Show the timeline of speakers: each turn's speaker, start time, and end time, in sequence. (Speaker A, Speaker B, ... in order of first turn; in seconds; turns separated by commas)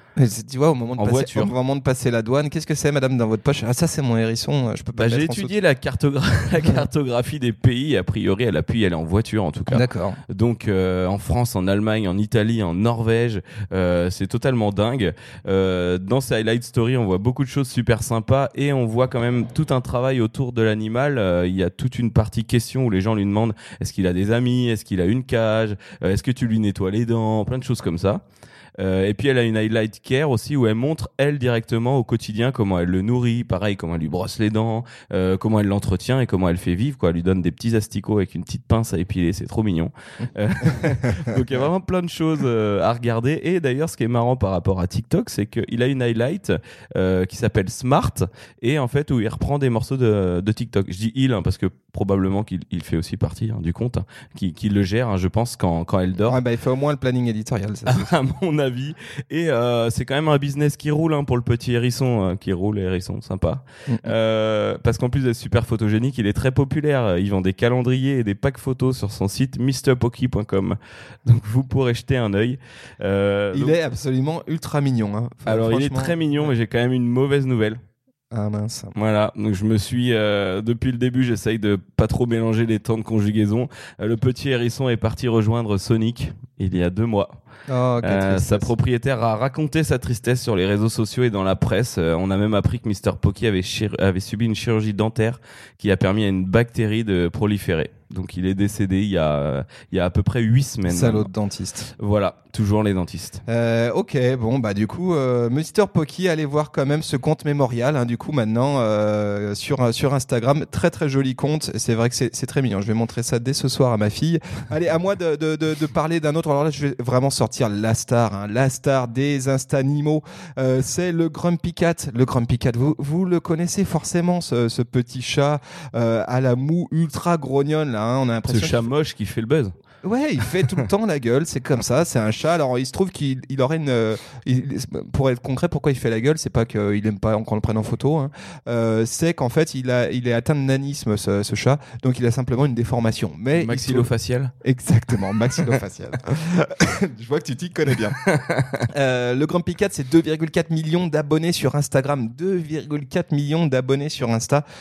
Speaker A: 0.2-5.5, Speaker B: 1.0-1.5, Speaker B: 5.0-28.2, Speaker A: 9.7-10.2, Speaker B: 28.8-56.4, Speaker A: 40.8-41.1, Speaker A: 56.2-58.1, Speaker B: 57.9-73.8, Speaker A: 63.9-64.1, Speaker A: 73.5-76.5, Speaker B: 75.5-77.8, Speaker A: 78.3-78.9, Speaker B: 78.9-87.4, Speaker A: 87.7-88.7, Speaker B: 88.0-101.3, Speaker A: 100.8-101.9, Speaker B: 102.0-103.4, Speaker A: 103.5-128.9, Speaker B: 128.5-129.7, Speaker A: 130.0-144.1, Speaker B: 143.5-144.5, Speaker A: 144.6-148.2, Speaker B: 148.2-148.8, Speaker A: 148.9-154.6